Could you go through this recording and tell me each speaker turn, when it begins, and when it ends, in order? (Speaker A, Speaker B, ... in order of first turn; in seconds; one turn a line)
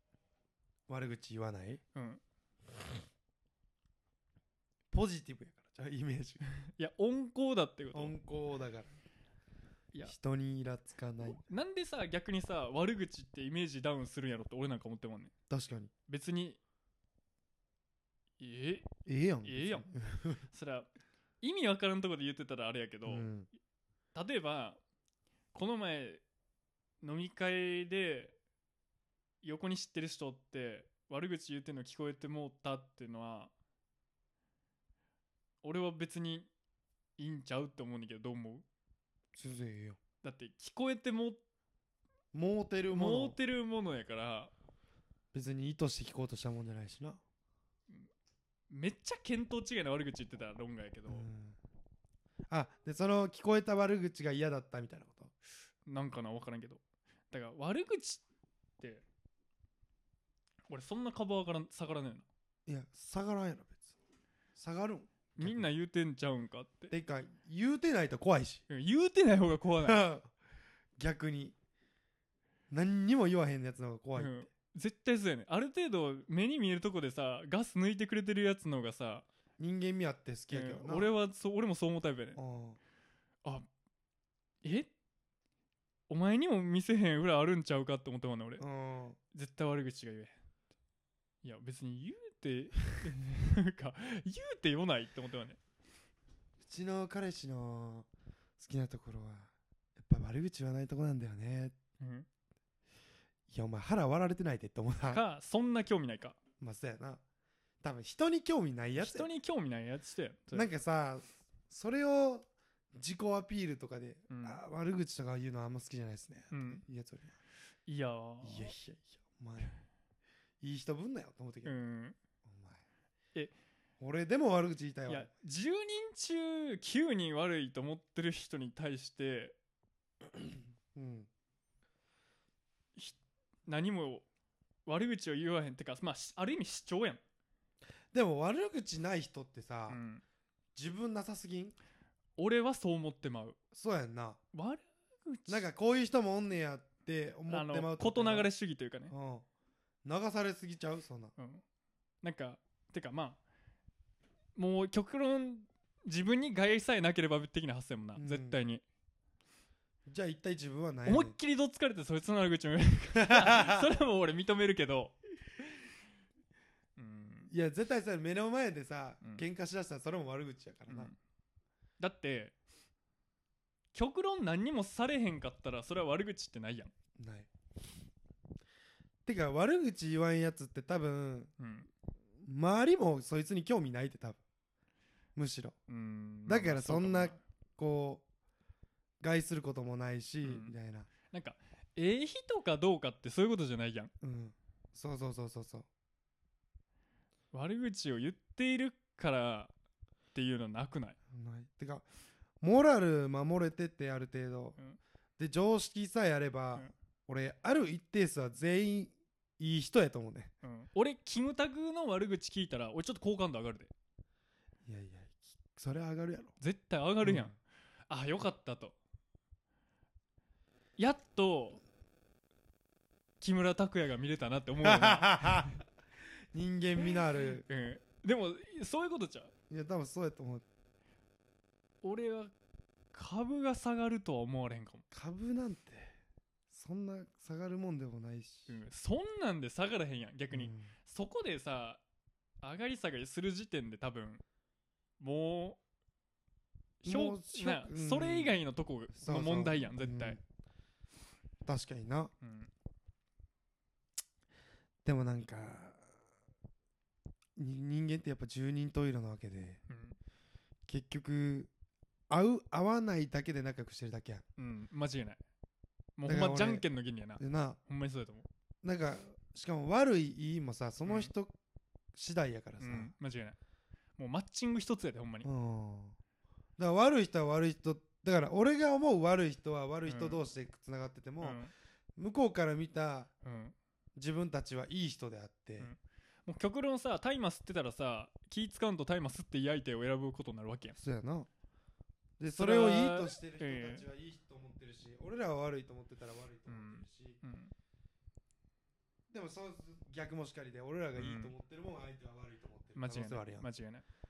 Speaker A: 0.9-1.8
Speaker B: 1.9-2.2
Speaker A: 4.9-6.4
Speaker B: 6.7-8.1
Speaker A: 7.9-8.9
Speaker A: 10.0-11.4
Speaker B: 11.2-15.3
Speaker A: 15.5-15.9
Speaker B: 16.1-16.6
Speaker B: 18.4-18.9
Speaker A: 19.1-20.4
Speaker B: 19.4-19.9
Speaker B: 20.5-20.9
Speaker B: 21.4-23.3
Speaker A: 23.1-23.5
Speaker B: 24.1-24.8
Speaker B: 25.5-26.2
Speaker B: 27.0-28.4
Speaker B: 29.4-33.5
Speaker B: 35.6-36.5
Speaker B: 37.2-38.6
Speaker A: 39.3-40.0
Speaker B: 40.2-41.4
Speaker A: 42.3-43.4
Speaker B: 42.9-44.5
Speaker A: 45.3-47.2
Speaker B: 48.7-51.3
Speaker A: 51.1-51.6
Speaker A: 52.5-55.3
Speaker B: 55.9-58.2
Speaker B: 60.7-62.2
Speaker A: 62.7-63.9
Speaker A: 64.5-65.7
Speaker B: 65.4-66.9
Speaker A: 66.9-68.6
Speaker B: 68.7-70.0
Speaker A: 69.8-70.3
Speaker A: 71.0-71.5
Speaker A: 72.7-74.4
Speaker B: 74.2-79.2
Speaker A: 79.6-81.1
Speaker B: 80.5-82.4
Speaker A: 82.3-82.8
Speaker B: 84.6-84.9
Speaker B: 86.1-88.6
Speaker A: 88.6-89.2
Speaker B: 89.3-90.3
Speaker B: 91.4-95.6
Speaker A: 96.6-98.1
Speaker A: 98.6-101.7
Speaker B: 102.0-102.2
Speaker A: 103.5-105.2
Speaker B: 105.1-106.4
Speaker A: 106.6-107.2
Speaker A: 107.8-109.3
Speaker B: 109.0-110.7
Speaker A: 110.5-117.3
Speaker B: 114.3-114.6
Speaker B: 116.5-116.8
Speaker B: 117.8-118.7
Speaker A: 118.4-119.7
Speaker A: 120.6-121.7
Speaker B: 121.6-122.2
Speaker A: 122.4-122.8
Speaker A: 124.0-125.3
Speaker B: 125.1-129.6
Speaker A: 130.9-131.3
Speaker B: 132.9-134.2
Speaker B: 134.8-137.2
Speaker A: 138.1-140.0
Speaker B: 139.9-140.2
Speaker A: 140.7-141.7
Speaker B: 142.4-143.6
Speaker A: 143.7-144.4
Speaker B: 144.5-145.7
Speaker A: 145.5-148.5
Speaker B: 147.5-149.1
Speaker A: 149.1-149.4
Speaker A: 150.0-151.3
Speaker B: 151.4-151.6
Speaker B: 152.2-153.4
Speaker B: 154.6-158.8
Speaker A: 158.2-158.6
Speaker A: 160.1-161.3
Speaker B: 161.0-165.2
Speaker A: 163.2-163.9
Speaker B: 167.0-167.5
Speaker A: 167.5-171.1
Speaker B: 170.9-171.2
Speaker B: 172.0-172.5
Speaker B: 173.9-176.9
Speaker A: 177.2-177.5
Speaker A: 179.2-181.5
Speaker B: 181.6-181.9
Speaker A: 182.4-184.4
Speaker A: 185.3-185.8
Speaker B: 185.9-187.4
Speaker A: 186.5-188.2
Speaker A: 189.2-191.1
Speaker B: 190.4-190.7
Speaker B: 191.3-194.1
Speaker A: 194.2-195.9
Speaker B: 197.5-199.7
Speaker B: 200.3-201.2
Speaker A: 201.3-202.0
Speaker A: 202.6-204.8
Speaker A: 205.4-210.5
Speaker B: 210.6-213.9
Speaker A: 214.8-216.5
Speaker B: 216.6-217.5
Speaker A: 217.2-217.5
Speaker B: 218.1-218.9
Speaker B: 221.0-221.8
Speaker B: 223.4-225.8
Speaker A: 224.8-225.8
Speaker A: 226.5-227.6
Speaker B: 227.7-229.5
Speaker A: 229.7-230.6
Speaker B: 232.0-232.5
Speaker B: 233.1-235.0
Speaker A: 235.1-236.1
Speaker A: 236.7-238.8
Speaker B: 238.7-242.0
Speaker A: 240.5-240.9
Speaker B: 242.6-244.4
Speaker B: 245.2-245.8
Speaker B: 247.0-250.4
Speaker A: 247.0-248.6
Speaker A: 249.1-250.4
Speaker A: 251.6-252.3
Speaker B: 252.4-252.7
Speaker A: 255.0-256.0
Speaker A: 257.6-259.8
Speaker B: 259.9-260.2
Speaker A: 260.9-261.7
Speaker A: 262.3-264.4
Speaker B: 264.6-265.4
Speaker B: 266.2-268.5
Speaker A: 266.2-266.8
Speaker A: 267.4-267.8
Speaker A: 268.8-271.5
Speaker B: 271.1-271.3
Speaker A: 272.1-273.1
Speaker B: 272.8-273.6
Speaker B: 274.2-275.5
Speaker A: 275.4-276.2
Speaker A: 276.8-281.6
Speaker B: 280.1-280.4
Speaker B: 281.4-281.7
Speaker A: 282.2-283.3
Speaker B: 283.4-283.7
Speaker A: 284.1-285.9
Speaker B: 285.8-291.0
Speaker A: 290.9-291.5
Speaker A: 292.4-297.4
Speaker B: 292.5-294.1
Speaker B: 296.7-297.7
Speaker A: 299.3-303.6
Speaker B: 301.2-301.5
Speaker B: 302.9-304.0